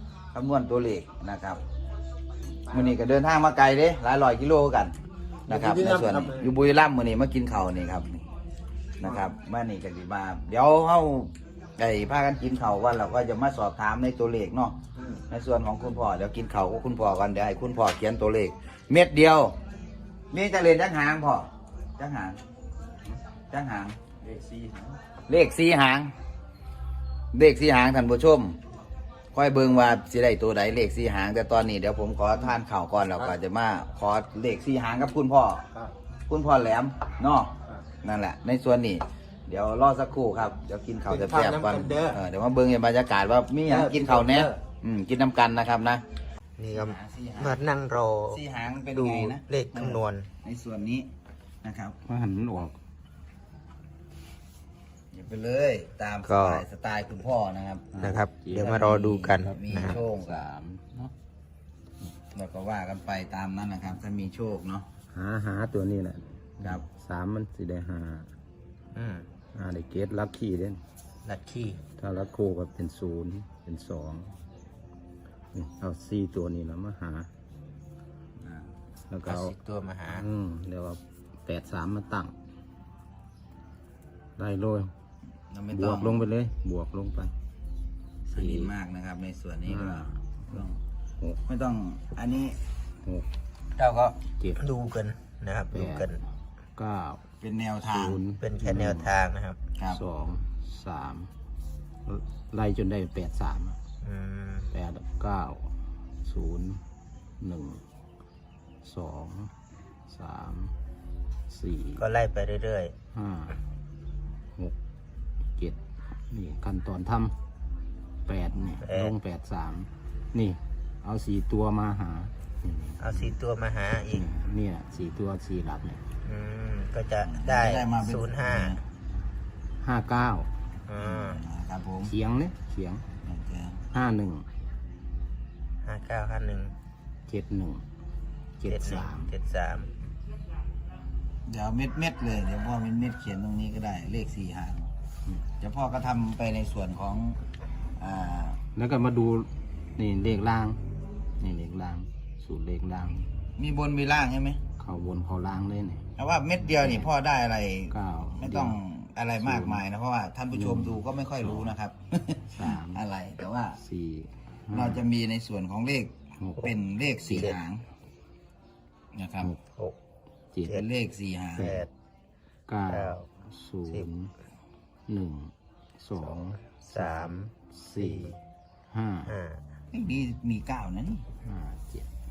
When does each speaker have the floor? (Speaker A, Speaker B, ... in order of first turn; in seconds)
Speaker A: 0.3-1.6, 2.7-5.0, 5.5-8.3, 9.0-14.8, 15.3-19.6, 20.3-22.4, 23.5-24.0, 25.3-26.1, 27.3-28.6, 29.3-35.6, 36.3-46.0, 46.7-47.6, 48.3-51.1, 51.6-52.0, 55.1-57.9, 58.6-60.4, 62.3-64.9, 85.5-86.2, 88.3-90.8, 91.5-92.6, 97.4-98.2, 127.2-128.8, 131.0-132.1, 133.2-133.8, 141.5-144.9, 145.6-147.4, 148.0-148.6, 153.6-154.6, 156.2-163.8, 164.7-167.8, 169.1-169.5, 170.7-171.7, 179.9-181.3
Speaker B: 5.5-6.5, 41.1-42.2, 43.7-44.5, 46.6-48.4, 48.9-50.3, 56.2-56.6, 58.0-60.0, 68.9-69.2, 71.2-71.8, 79.2-80.2, 93.8-96.2, 98.4-99.6, 104.0-104.7, 112.0-112.9, 118.8-119.1, 123.0-124.3, 126.2-128.8, 130.9-131.4, 135.8-136.7, 138.6-139.9, 167.3-167.6, 171.6-171.9, 172.9-173.2, 176.2-178.4, 179.2-179.6
Speaker C: 24.2-24.8, 52.0-52.8, 57.9-61.1, 65.1-68.3, 69.5-70.8, 72.0-74.3, 75.5-77.3, 79.1-79.5, 80.1-82.3, 84.4-84.9, 85.7-87.3, 88.3-88.7, 89.7-90.6, 95.7-96.2, 96.8-97.2, 97.9-99.1, 99.9-101.3, 102.0-103.8, 104.7-106.8, 107.4-107.8, 108.8-109.5, 110.1-110.7, 111.5-112.0, 113.1-113.6, 116.3-117.3, 118.2-123.3, 124.0-126.0, 129.8-130.5, 132.0-133.1, 133.9-134.4, 137.3-137.8, 138.6-139.3, 148.7-150.8, 151.4-153.3, 154.8-156.1, 156.8-157.1, 157.9-158.8, 159.4-159.8, 160.5-161.7, 162.5-163.0, 163.8-165.0, 166.4-166.7, 167.3-167.5, 170.5-170.8, 171.6-171.8, 172.7-174.3, 175.1-178.3, 178.9-179.3, 181.4-182.1